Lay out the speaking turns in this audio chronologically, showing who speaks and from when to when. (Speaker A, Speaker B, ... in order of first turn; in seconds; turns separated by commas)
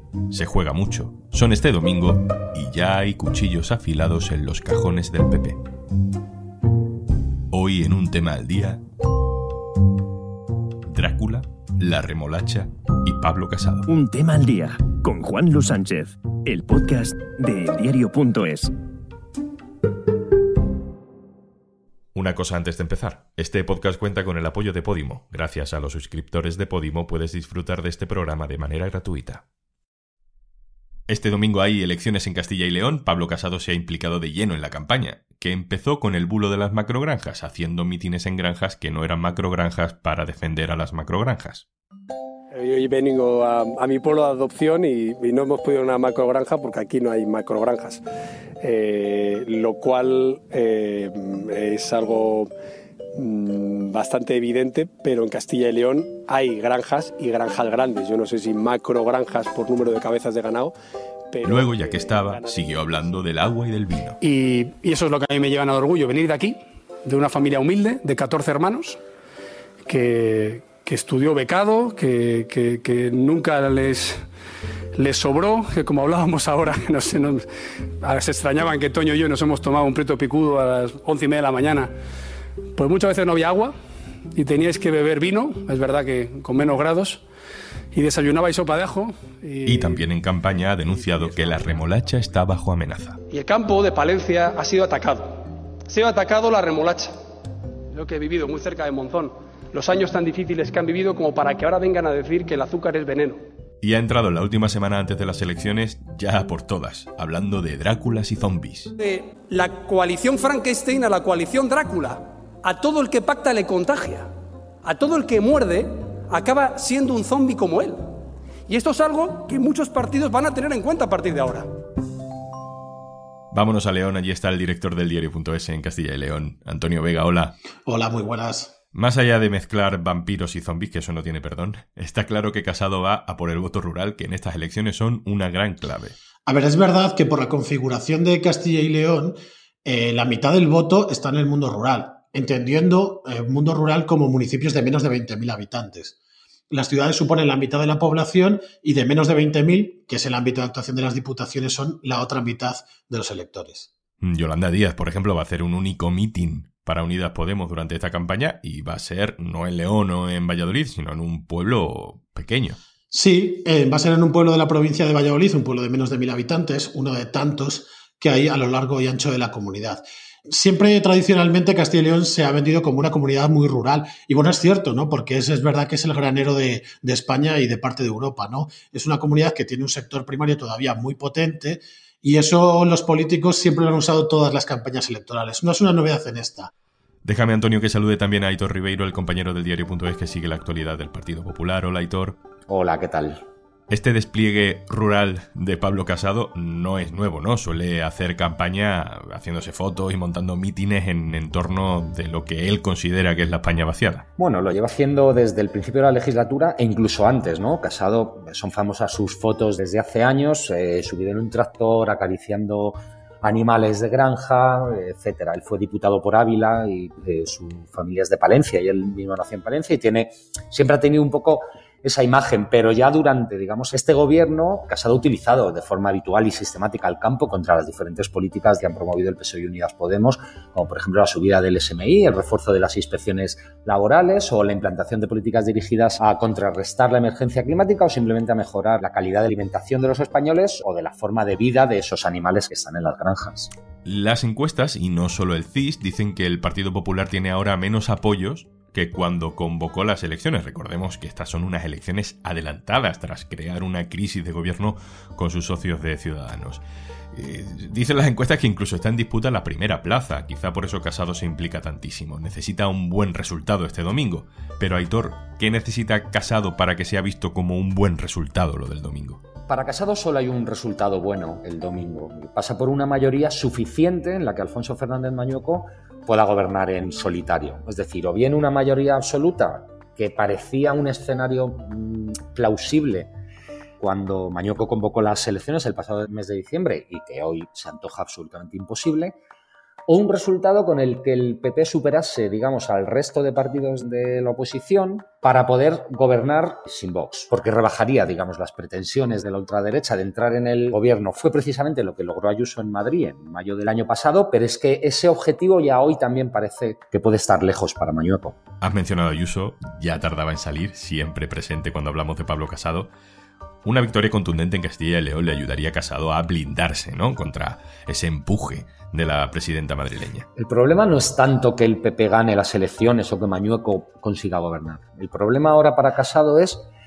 Speaker A: 0.3-5.6, Speaker A: 7.5-8.8, Speaker A: 10.9-13.9, Speaker B: 13.9-18.7, Speaker A: 22.1-29.4, Speaker A: 31.1-41.7, Speaker C: 42.5-48.0, Speaker C: 48.6-52.5, Speaker C: 53.2-60.7, Speaker C: 61.3-63.1, Speaker A: 61.4-64.2, Speaker C: 64.2-69.0, Speaker C: 69.9-74.2, Speaker C: 75.0-77.5, Speaker C: 78.0-81.9, Speaker C: 82.8-83.7, Speaker C: 84.3-87.2, Speaker C: 87.9-90.1, Speaker A: 89.7-93.2, Speaker C: 91.0-91.5, Speaker C: 93.3-97.1, Speaker C: 97.9-103.4, Speaker A: 103.8-108.9, Speaker C: 109.0-114.3, Speaker C: 114.8-118.0, Speaker C: 118.7-121.7, Speaker A: 123.5-127.5, Speaker D: 127.9-128.7, Speaker A: 128.9-136.2, Speaker D: 136.5-146.2, Speaker D: 146.7-153.9, Speaker A: 154.2-162.8, Speaker D: 163.1-186.7, Speaker A: 187.2-192.4, Speaker E: 192.7-193.4, Speaker A: 193.9-204.3, Speaker E: 204.4-243.7, Speaker A: 244.1-256.8, Speaker A: 257.3-269.4, Speaker E: 269.7-283.3, Speaker E: 284.0-289.4, Speaker E: 290.1-308.6, Speaker A: 308.8-313.1, Speaker A: 313.9-320.4, Speaker E: 320.6-326.9